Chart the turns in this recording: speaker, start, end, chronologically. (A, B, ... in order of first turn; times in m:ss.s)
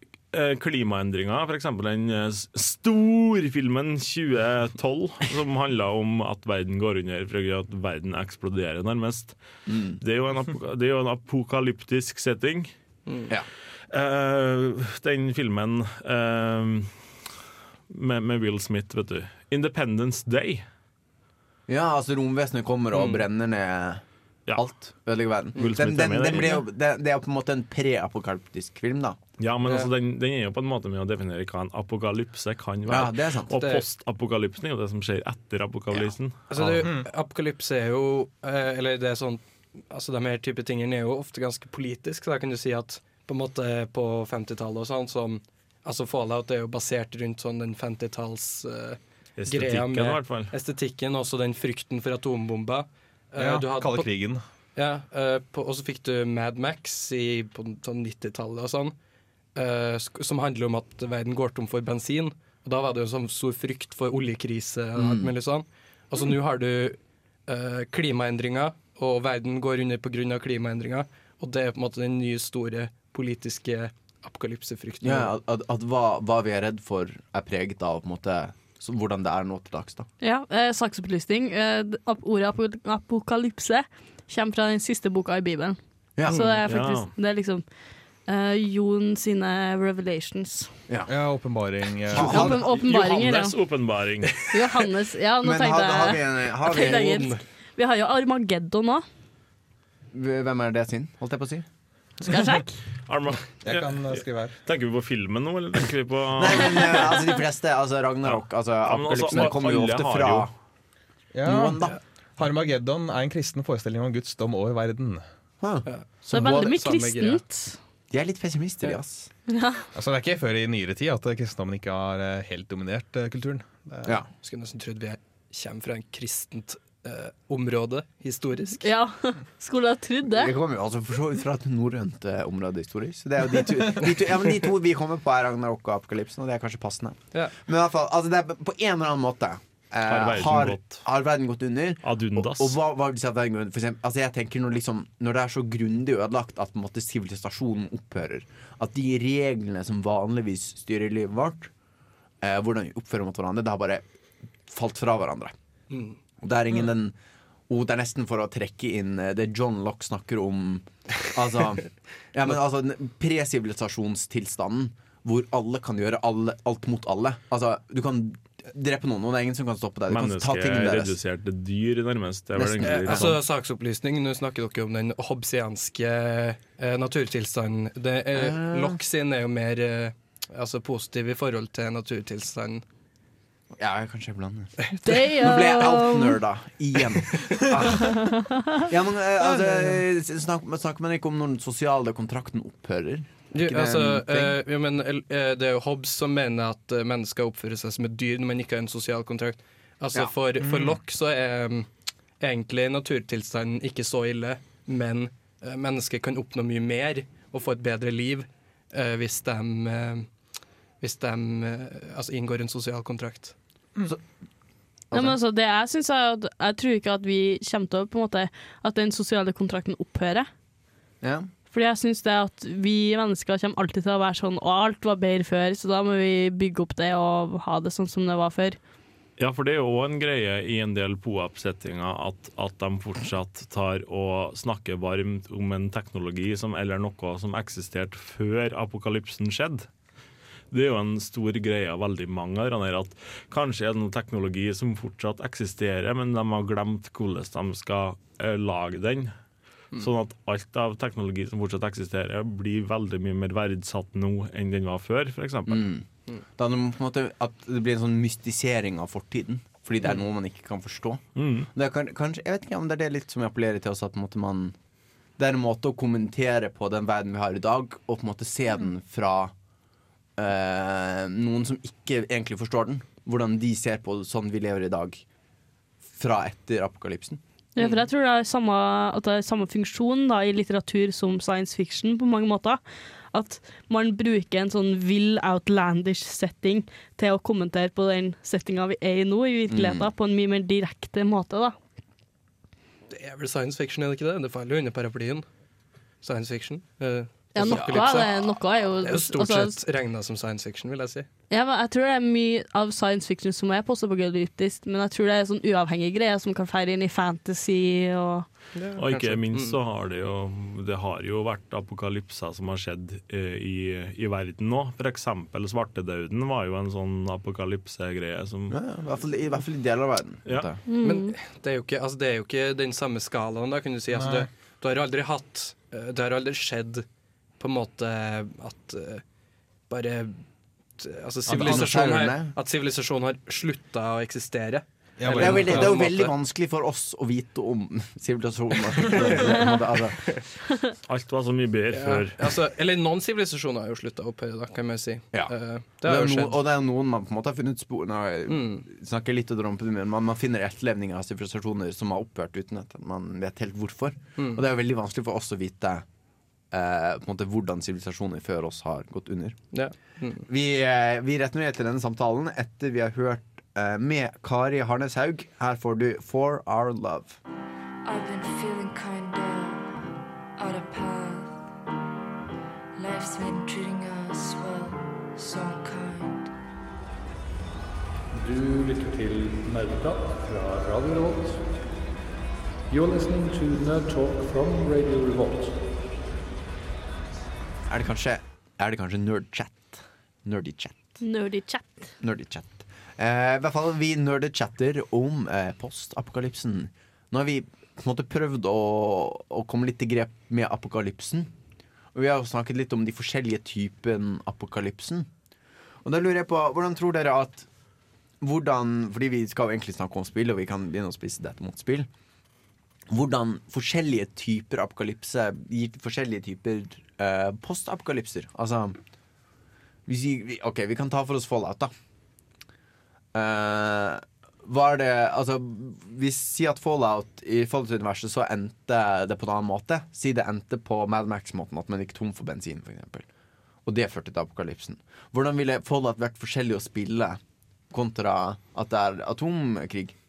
0:00.3-0:09.4 A
0:09.7-0:10.0 B
0:10.0-0:12.7 A
0:13.9-0:16.9 A
0:17.9-0:20.6 A
0:21.7-0:24.0 B
0:22.9-0:23.2 A
0:24.5-0:29.2 B
0:25.6-0:26.6 A
0:29.4-0:36.9 A
0:29.6-0:29.9 C
0:32.8-0:33.8 B
0:36.5-0:54.1 C
0:49.4-0:50.5 A
0:53.4-0:54.4 D
0:54.8-0:58.9 C
0:59.5-1:15.3 C
1:05.0-1:05.3 B
1:15.0-1:20.1 B
1:20.2-1:27.6 E
1:26.2-1:26.4 B
1:26.3-1:26.6 C
1:26.7-1:27.1 A
1:28.2-1:30.7 E
1:31.1-1:32.5 D
1:32.1-1:32.7 B
1:32.2-1:33.6 E
1:32.6-1:34.4 A
1:34.5-1:39.0 E
1:35.4-1:37.2 B
1:36.8-1:37.4 C
1:40.1-1:41.6 B
1:42.2-1:42.7 E
1:43.0-1:47.1 A
1:43.6-1:44.5 D
1:46.4-1:50.5 B
1:48.2-1:50.5 A
1:51.3-1:55.2 D
1:51.4-1:52.0 B
1:55.6-1:55.9 B
1:55.8-1:57.4 C
1:56.3-1:57.8 E
1:58.1-1:59.3 B
1:59.5-1:59.8 E
1:59.9-2:04.2 D
2:04.3-2:08.9 C
2:08.8-2:10.5 E
2:10.3-2:31.7 B
2:20.1-2:21.0 A
2:22.0-2:22.8 A
2:32.4-2:34.0 B
2:34.7-2:35.5 B
2:35.9-2:36.2 C
2:36.4-2:37.1 B
2:37.7-2:51.1 B
2:50.1-2:53.4 A
2:52.6-2:53.4 B
2:52.8-3:02.8 C
2:58.3-2:59.0 B
3:03.8-3:08.3 B
3:05.0-3:06.4 E
3:07.4-3:07.6 C
3:08.1-3:08.8 E
3:08.8-3:14.6 B
3:13.5-3:21.9 C
3:20.6-3:21.0 D
3:22.4-3:30.3 C
3:31.0-3:33.5 C
3:35.1-3:35.4 B
3:35.1-3:40.5 E
3:41.2-3:41.5 B
3:41.7-3:48.8 E
3:49.4-3:59.9 A
4:00.7-4:09.3 A
4:10.0-4:15.8 A
4:15.7-4:24.7 B
4:21.4-4:21.7 A
4:25.4-4:29.5 B
4:30.4-4:35.2 B
4:36.0-4:37.4 B
4:37.8-4:42.8 E
4:37.8-4:38.0 C
4:43.3-4:51.8 E
4:49.7-4:50.1 B
4:53.1-4:55.5 C
4:56.2-4:58.4 C
4:57.5-4:59.8 E
4:57.6-4:58.3 B
4:59.0-5:01.3 C
5:01.5-5:08.5 E
5:08.7-5:09.8 C
5:09.0-5:18.8 A
5:18.7-5:20.8 B
5:20.9-5:21.4 E
5:21.0-5:27.0 C
5:24.1-5:24.5 D
5:27.6-5:29.2 C
5:29.9-5:30.4 C
5:31.0-5:36.3 C
5:31.4-5:32.5 B
5:31.6-5:31.9 D
5:35.2-5:36.0 D
5:35.4-5:40.4 B
5:39.1-5:39.5 C
5:41.1-5:42.5 A
5:41.9-5:46.6 C
5:45.3-5:56.0 B
5:48.5-5:48.8 C
5:54.4-5:54.6 C
5:56.7-5:59.6 B
5:59.7-6:00.4 C
6:00.5-6:07.4 B
6:08.0-6:11.6 F
6:13.0-6:16.5 F
6:18.4-6:21.6 G
6:22.9-6:25.8 G
6:27.9-6:31.2 B
6:31.2-6:32.0 E
6:32.2-6:41.5 B
6:42.1-6:45.3 B
6:46.0-6:47.7 B
6:48.4-6:52.1 B
6:53.1-6:59.0 B
7:00.1-7:01.9 B
7:03.3-7:13.2 B
7:13.8-7:17.4 B
7:17.9-7:20.1 B